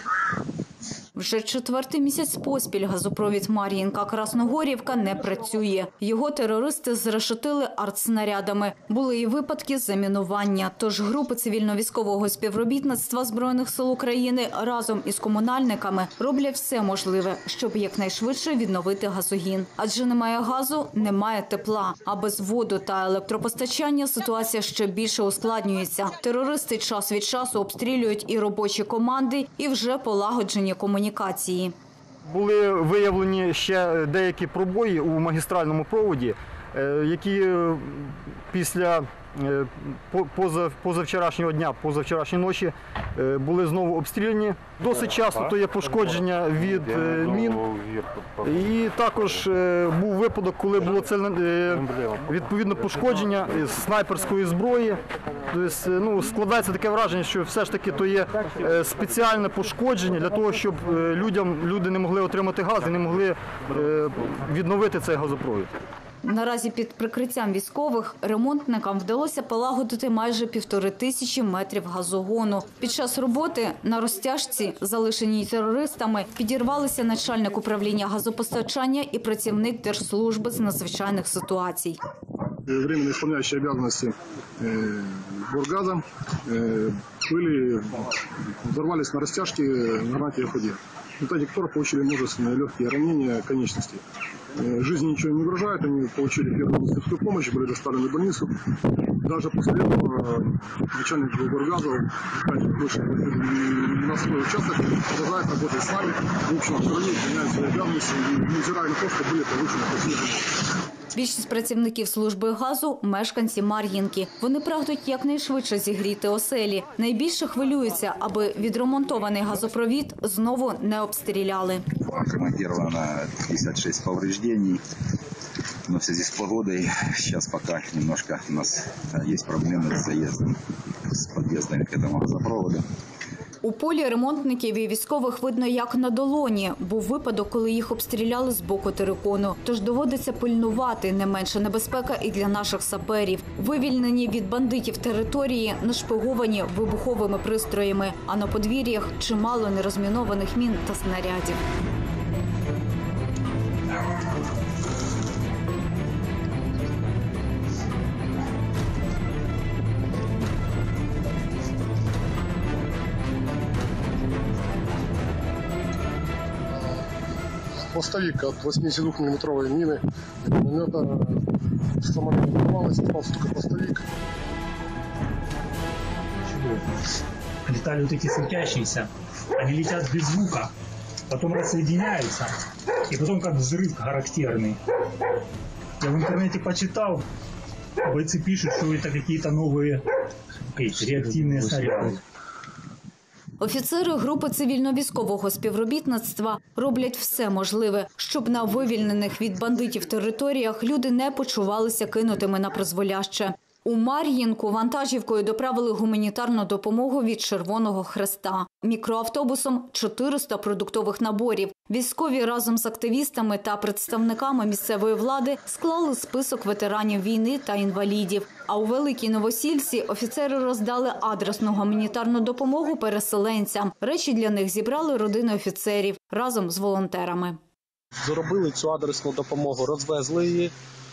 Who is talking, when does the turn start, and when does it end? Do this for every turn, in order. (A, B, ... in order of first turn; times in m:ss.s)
0:01.2-0:31.7 A
0:32.3-0:47.7 B
0:48.4-0:55.0 B
0:55.5-1:05.7 B
1:06.2-1:22.0 A
1:22.7-1:34.0 C
1:34.6-1:38.6 C
1:39.2-1:50.5 C
1:51.1-2:01.8 A
2:02.1-2:04.8 D
2:05.9-2:10.6 D
2:11.1-2:12.8 D
2:13.6-2:31.6 A
2:47.9-2:51.4 C
2:52.1-2:54.0 C
2:56.5-2:56.8 E
2:57.7-2:59.1 E
2:59.6-3:00.7 E
3:01.3-3:02.5 E
3:03.1-3:04.8 E
3:06.0-3:07.2 E
3:08.1-3:10.0 E
3:10.8-3:12.2 E
3:13.6-3:47.6 A
3:48.2-3:50.7 F